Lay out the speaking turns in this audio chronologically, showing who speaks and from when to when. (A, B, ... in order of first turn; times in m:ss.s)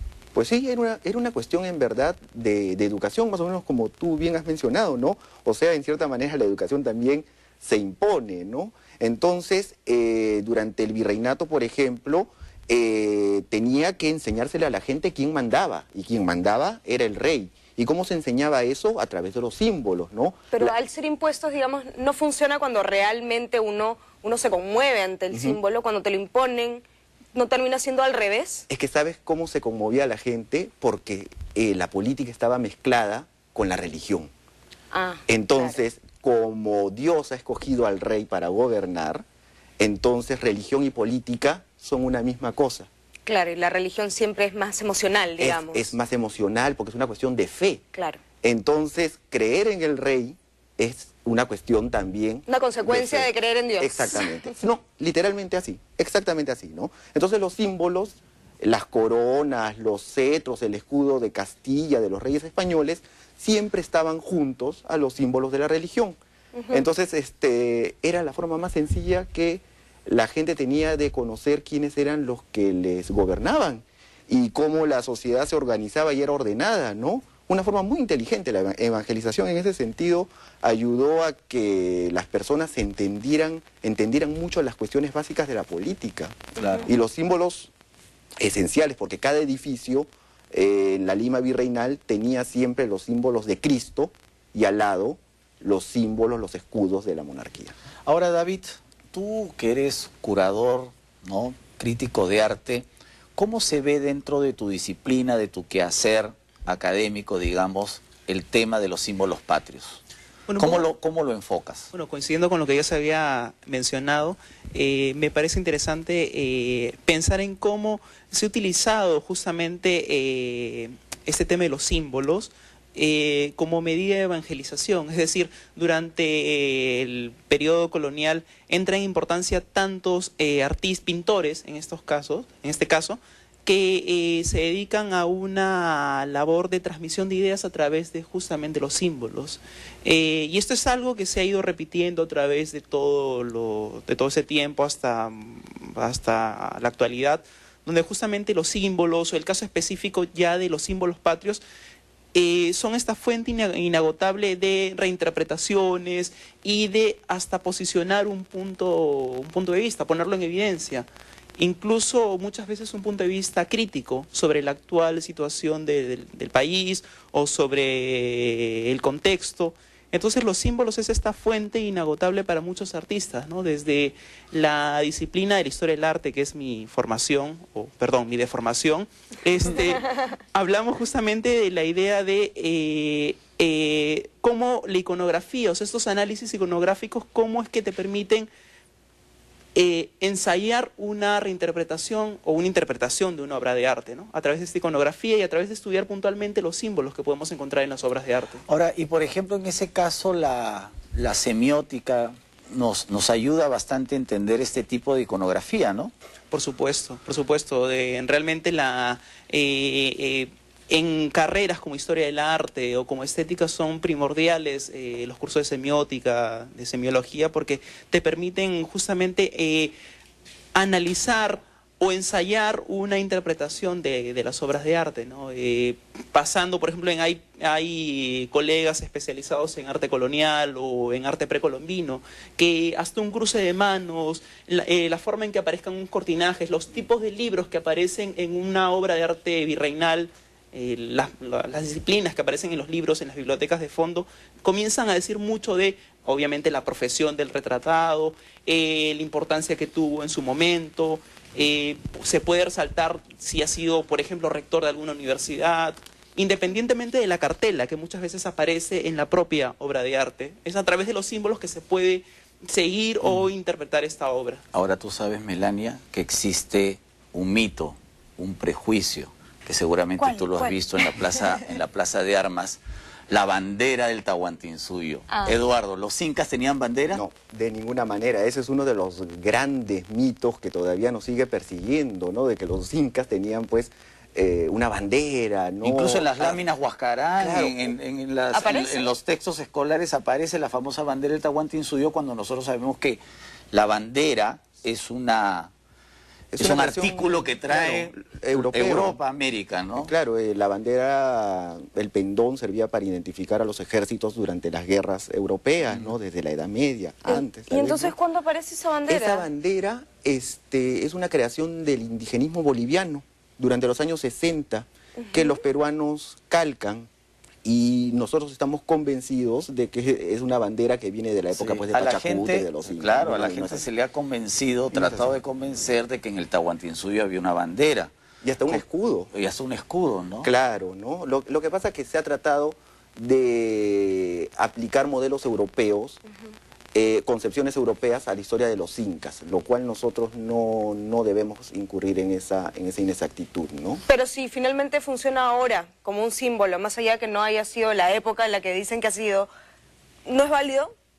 0:00.3-0:20.7 A
0:20.5-0:28.7 B
0:25.3-0:25.6 A
0:28.7-0:34.3 A
0:34.9-0:35.8 B
0:35.3-0:39.2 A
0:39.8-0:42.9 A
0:43.3-0:45.9 B
0:45.4-0:47.8 A
0:47.9-0:48.2 B
0:48.4-1:06.2 A
0:52.5-0:54.3 B
1:06.6-1:06.8 B
1:06.7-1:27.7 A
1:28.4-1:37.8 A
1:38.1-1:42.9 C
1:43.4-1:50.0 C
1:50.5-1:50.9 D
1:50.6-1:51.9 C
1:51.9-2:31.6 D
2:32.3-3:08.5 D
3:09.8-3:18.6 D
3:18.7-3:26.1 C
3:26.5-3:39.9 D
3:40.7-4:24.6 D
4:24.7-4:37.2 C
4:30.2-4:31.6 B
4:35.3-4:35.6 B
4:37.1-4:46.6 A
4:45.8-4:53.2 C
4:47.4-4:47.8 A
4:48.5-4:49.1 B
4:53.7-4:55.7 C
4:56.5-4:59.2 A
4:56.6-5:00.1 C
5:00.0-5:08.1 A
5:07.3-5:09.5 B
5:09.1-5:17.1 A
5:15.2-5:15.6 B
5:17.6-5:23.8 A
5:21.5-5:28.1 C
5:24.9-5:25.4 A
5:28.4-5:29.3 A
5:28.7-5:30.5 C
5:30.4-5:36.2 A
5:36.9-5:44.0 A
5:44.1-5:49.5 B
5:50.3-5:50.9 B